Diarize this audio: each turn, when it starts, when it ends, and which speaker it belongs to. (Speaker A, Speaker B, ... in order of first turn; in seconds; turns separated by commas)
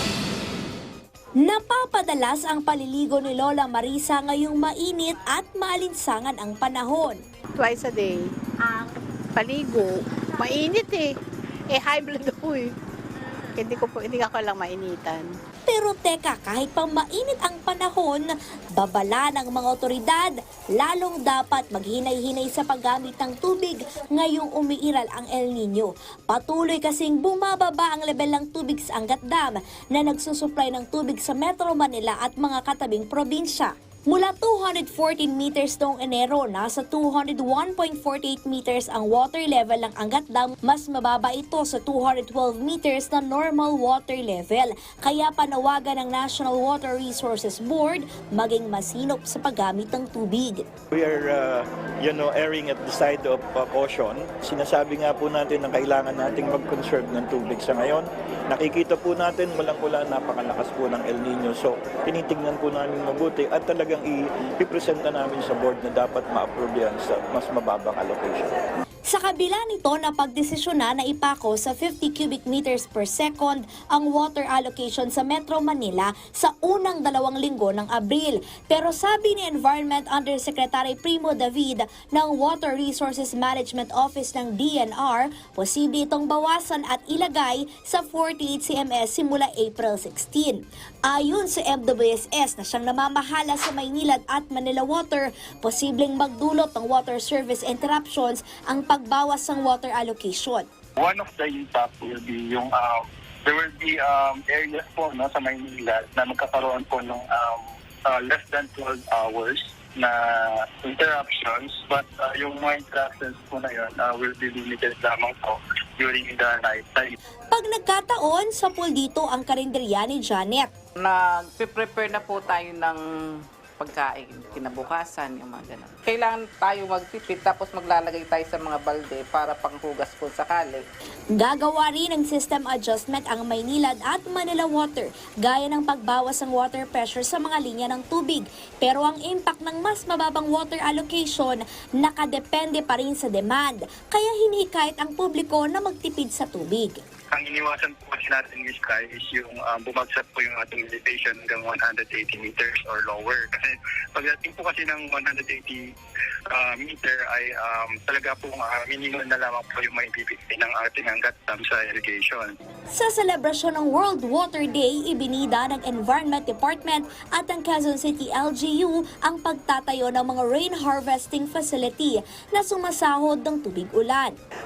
Speaker A: 1.4-7.2, Speaker B: 7.5-11.2, Speaker B: 11.7-12.8, Speaker B: 13.6-15.3, Speaker A: 15.7-50.7, Speaker C: 50.9-68.6, Speaker A: 69.1-100.7, Speaker D: 101.0-117.2, Speaker A: 117.5-120.7, Speaker E: 121.0-123.0, Speaker E: 123.8-130.8, Speaker A: 131.3-147.0, Speaker D: 147.3-155.8, Speaker D: 156.5-162.6, Speaker A: 162.9-174.4